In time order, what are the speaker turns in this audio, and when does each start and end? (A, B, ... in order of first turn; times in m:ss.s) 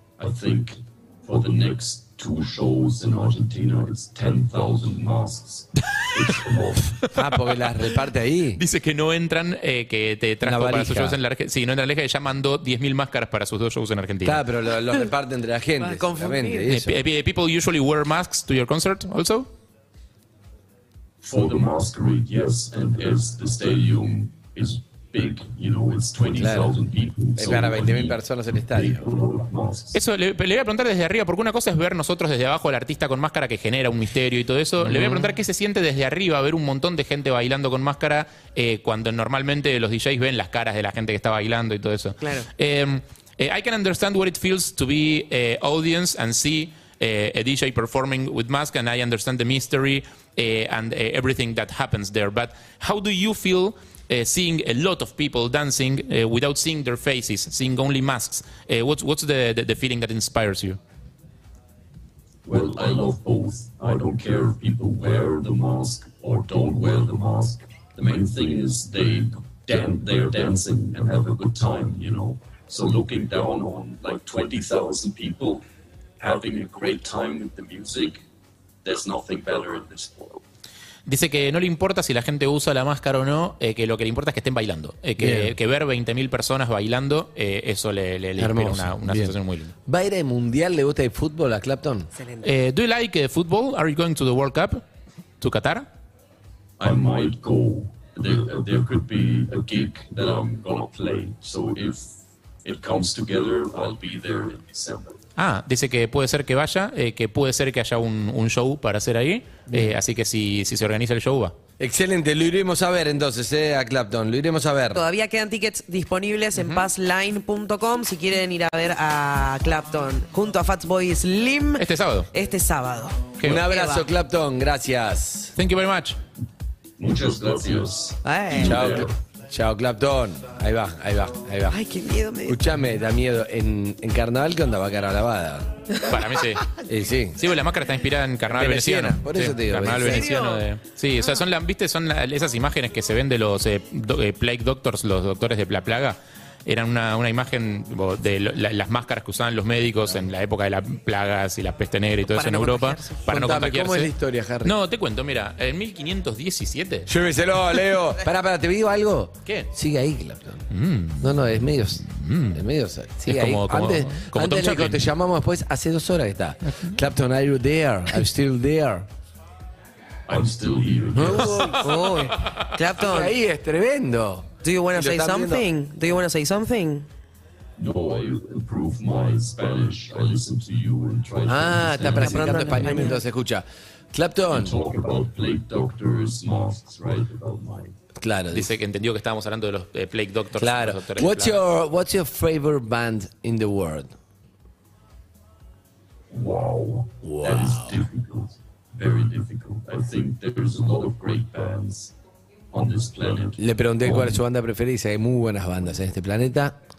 0:00.2-0:07.1 A
0:07.1-0:08.6 B
0:08.6-0:14.4 C
0:10.4-0:11.2 B
0:14.2-0:17.0 B
0:15.8-0:16.7 D
0:16.7-0:19.5 C
0:21.2-0:30.0 A
0:26.4-0:26.8 B
0:27.4-0:29.0 B
0:29.9-1:00.8 C
0:42.2-0:42.5 D
1:02.5-1:15.6 A
1:16.2-1:18.2 A
1:18.8-1:20.4 A
1:21.1-1:29.7 C
1:25.2-1:25.5 B
1:28.4-1:32.1 B
1:32.1-1:32.5 D
1:32.4-1:34.8 C
1:35.4-1:35.9 C
1:36.8-1:45.2 A
1:45.4-1:51.6 C
1:51.8-1:55.0 B
1:54.9-2:04.1 D
1:56.6-1:56.9 C
2:01.8-2:02.3 C
2:03.4-2:03.6 C
2:03.4-2:05.5 B
2:05.6-2:06.2 C
2:07.0-2:09.1 A
2:08.2-2:08.9 D
2:08.6-2:11.8 B
2:11.7-2:12.6 D
2:12.5-2:15.7 B
2:16.0-2:16.8 C
2:16.9-2:17.4 B
2:17.4-2:37.1 C
2:18.5-2:20.3 B
2:20.0-2:20.7 D
2:32.2-2:33.2 D
2:33.3-2:34.8 B
2:37.1-2:40.7 B
2:39.4-2:39.7 C
2:40.7-2:41.4 C
2:41.2-2:49.1 B
2:42.0-2:42.6 C
2:43.2-2:45.0 C
2:50.3-2:51.7 A
2:51.2-2:51.8 B
2:51.6-2:52.3 C
2:51.7-2:53.4 D
2:53.0-2:55.6 B
2:54.6-2:57.1 D
2:57.8-3:02.9 A
3:01.5-3:04.8 B
3:02.0-3:03.2 D
3:04.5-3:08.0 A
3:08.2-3:08.7 B
3:08.5-3:11.6 C
3:10.6-3:14.1 B
3:16.3-3:22.1 A
3:17.2-3:18.0 B
3:22.7-3:24.4 A
3:23.6-3:26.8 B